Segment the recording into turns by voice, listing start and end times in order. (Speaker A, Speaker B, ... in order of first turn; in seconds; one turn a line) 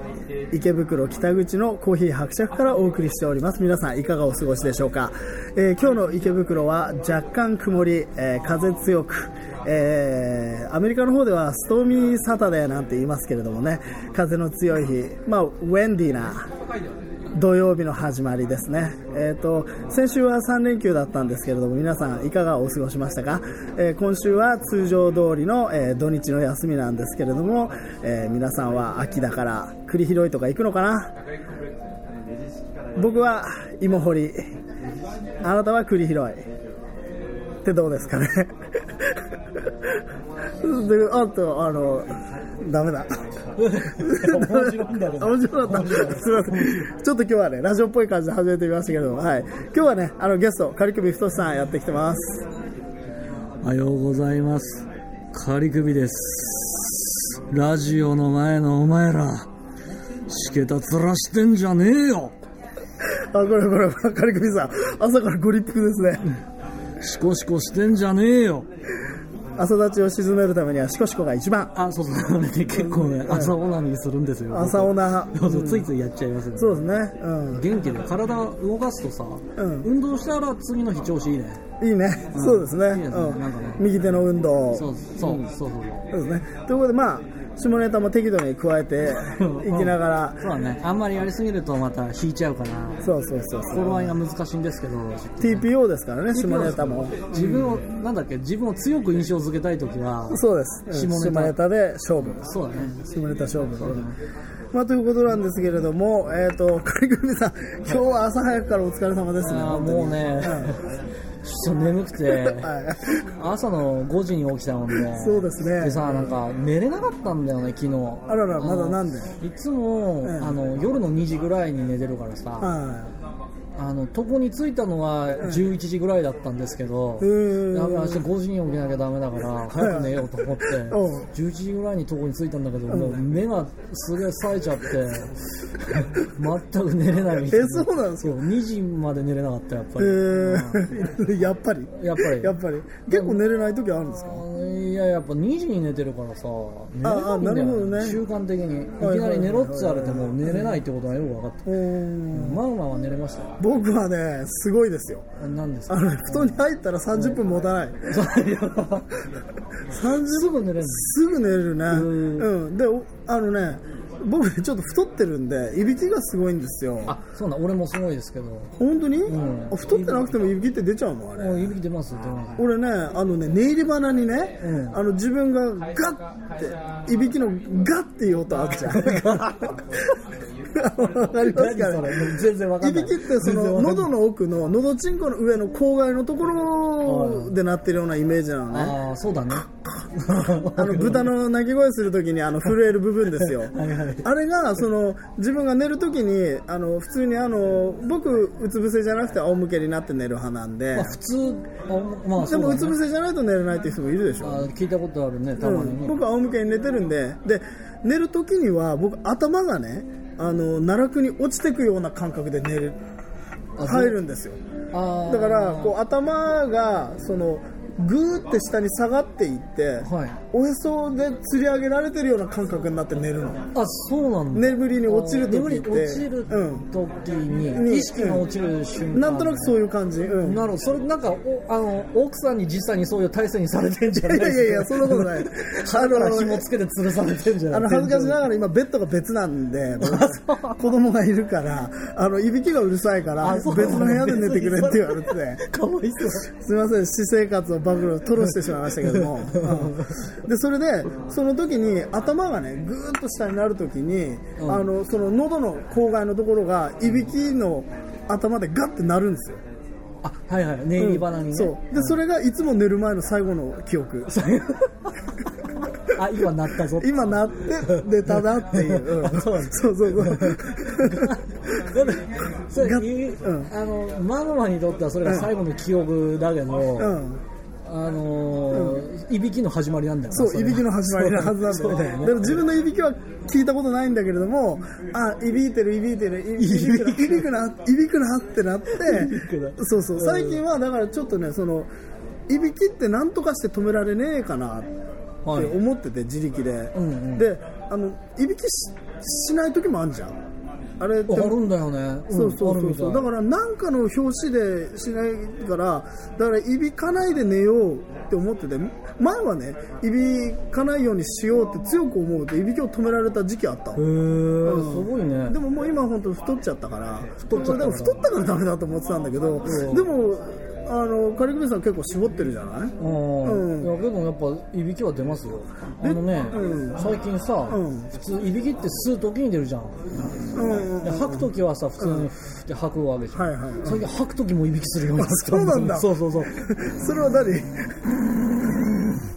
Speaker A: 0.5-16.5
Speaker A: 17.4-31.1
Speaker A: 33.0-34.4
Speaker A: 35.4-36.5
Speaker A: 37.6-40.0
Speaker A: 40.6-43.2
Speaker B: 43.6-46.9
Speaker A: 44.0-52.4
Speaker B: 53.6-59.5
Speaker B: 60.3-62.3
Speaker A: 63.0-66.2
Speaker B: 67.0-68.7
Speaker A: 69.6-71.7
Speaker B: 71.8-76.9
Speaker A: 72.7-73.6
Speaker A: 74.5-75.9
Speaker A: 76.6-77.7
Speaker B: 77.5-81.6
Speaker A: 79.6-79.9
Speaker A: 81.8-85.5
Speaker B: 82.3-83.9
Speaker B: 84.7-86.1
Speaker A: 86.1-90.4
Speaker B: 89.4-93.0
Speaker A: 93.0-94.2
Speaker B: 93.7-95.7
Speaker A: 95.4-97.8
Speaker B: 96.3-101.6
Speaker A: 100.3-104.1
Speaker B: 102.2-103.0
Speaker B: 103.8-104.2
Speaker A: 104.7-110.8
Speaker B: 109.4-110.9
Speaker B: 111.4-122.7
Speaker A: 112.3-113.2
Speaker A: 115.0-116.2
Speaker A: 118.3-119.4
Speaker A: 120.2-120.6
Speaker A: 122.6-123.1
Speaker B: 123.8-140.9
Speaker A: 127.2-128.3
Speaker A: 129.7-131.3
Speaker A: 132.9-133.2
Speaker A: 137.4-138.4
Speaker A: 140.0-144.5
Speaker B: 142.0-142.6
Speaker B: 143.1-143.4
Speaker B: 144.2-151.7
Speaker A: 147.0-148.2
Speaker A: 149.0-150.8
Speaker A: 151.7-152.6
Speaker B: 152.3-153.6
Speaker A: 153.6-155.3
Speaker B: 155.4-156.6
Speaker A: 155.9-158.3
Speaker B: 157.2-157.4
Speaker B: 158.1-159.1
Speaker B: 159.9-161.2
Speaker A: 159.9-167.2
Speaker B: 161.9-162.5
Speaker B: 167.1-168.8
Speaker A: 168.8-171.8
Speaker B: 169.3-170.3
Speaker B: 171.4-172.7
Speaker A: 172.6-180.2
Speaker B: 174.6-175.0
Speaker B: 178.8-179.7
Speaker A: 180.7-189.0
Speaker B: 181.4-184.1
Speaker B: 187.1-187.5
Speaker B: 188.7-191.3
Speaker A: 190.6-201.2
Speaker B: 193.4-194.3
Speaker B: 200.9-203.0
Speaker A: 202.4-204.7
Speaker B: 204.4-206.2
Speaker A: 205.6-213.0
Speaker B: 213.8-214.2
Speaker A: 213.8-214.6
Speaker B: 214.9-215.9
Speaker A: 215.3-223.7
Speaker B: 220.0-220.4
Speaker B: 223.7-229.8
Speaker A: 224.5-226.9
Speaker A: 227.7-228.5
Speaker A: 229.1-230.6
Speaker B: 230.4-238.4
Speaker A: 234.2-236.7
Speaker A: 237.7-245.6
Speaker B: 240.0-240.8
Speaker B: 243.4-246.5
Speaker A: 246.3-259.6
Speaker B: 249.0-250.3
Speaker B: 254.6-254.9
Speaker B: 260.2-262.2
Speaker A: 261.0-264.5
Speaker B: 264.3-265.1
Speaker B: 266.1-277.2
Speaker A: 266.9-271.4
Speaker A: 272.8-273.7
Speaker A: 275.2-275.5
Speaker A: 277.0-277.4
Speaker B: 277.9-282.6
Speaker A: 278.7-279.0
Speaker A: 280.3-291.9
Speaker B: 286.6-287.5
Speaker B: 288.9-290.6
Speaker A: 292.5-294.9
Speaker B: 295.4-295.8
Speaker A: 295.5-300.4
Speaker B: 296.9-297.5
Speaker A: 301.0-301.7
Speaker B: 301.3-303.3
Speaker A: 302.3-314.0
Speaker B: 314.0-315.6
Speaker A: 314.6-323.9
Speaker B: 317.5-318.2
Speaker B: 319.6-320.1
Speaker B: 323.0-330.0
Speaker A: 326.0-327.1
Speaker A: 327.7-328.1
Speaker A: 330.5-332.3
Speaker B: 330.8-336.5
Speaker A: 333.3-334.1
Speaker A: 335.1-338.9